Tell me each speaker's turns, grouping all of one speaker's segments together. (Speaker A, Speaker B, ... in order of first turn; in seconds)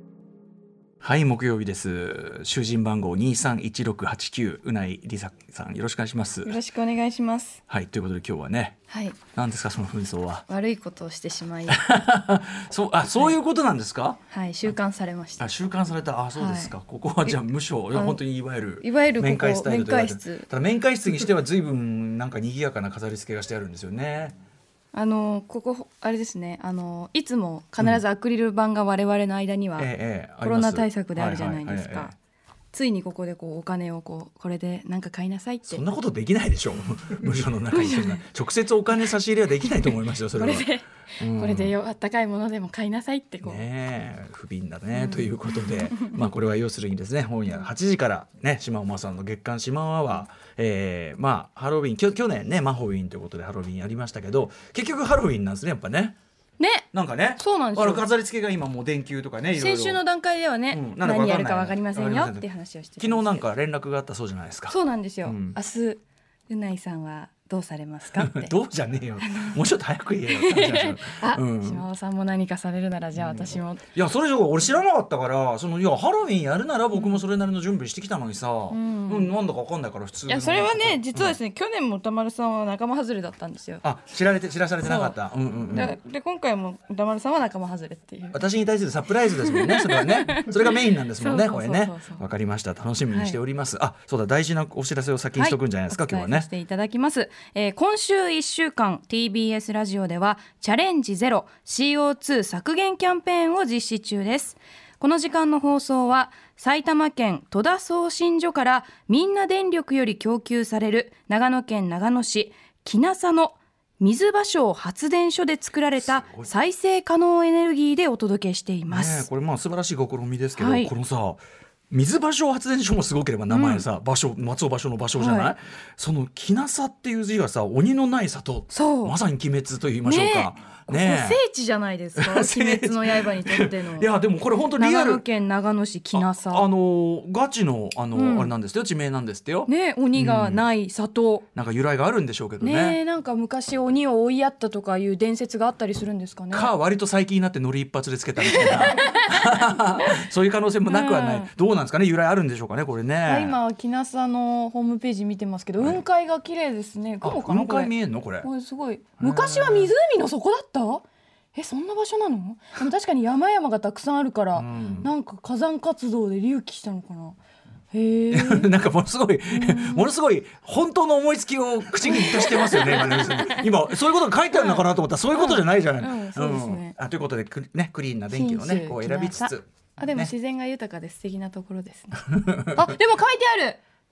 Speaker A: 1.0-6.6, 7.7-8.8, 9.3-10.4, 11.7-14.2, 15.4-24.3, 29.8-32.1, 35.7-41.8, 43.4-56.1, 56.9-60.0, 60.7-62.5, 63.0-65.5, 68.1-71.8, 73.2-81.4, 83.8-86.0, 88.3-96.5, 116.0-116.5, 118.9-131.4, 132.2-135.2, 136.1-140.6, 141.5-143.0, 146.5-153.6, 157.2-158.5, 159.2-159.9, 164.5-165.1, 168.3-180.3, 182.3-182.8
Speaker B: 6.4-7.6, 8.9-9.2, 10.5-11.8, 14.3-15.5, 16.3-17.4, 17.9-18.2, 18.8-20.5, 24.9-29.9, 30.4-32.1, 32.7-35.8, 37.7-38.2, 39.6-43.6, 44.9-46.2, 56.6-58.1, 59.5-63.5, 64.7-68.5, 69.2-69.6, 70.2-73.8, 76.9-77.2, 78.7-79.3, 80.3-83.8, 84.8-85.2, 85.7-88.4, 89.3-92.2, 93.1-93.4, 95.3-119.3, 120.5-120.9, 123.5-123.8, 125.2-125.5, 128.7-129.2, 130.0-134.1, 134.7-136.7, 138.1-138.5, 139.7-141.4, 142.6-146.7, 148.4-150.2, 150.9-151.5, 153.2-167.4, 167.9-168.7, 169.5-170.1, 172.0-173.7, 174.5-176.9, 178.3-183.8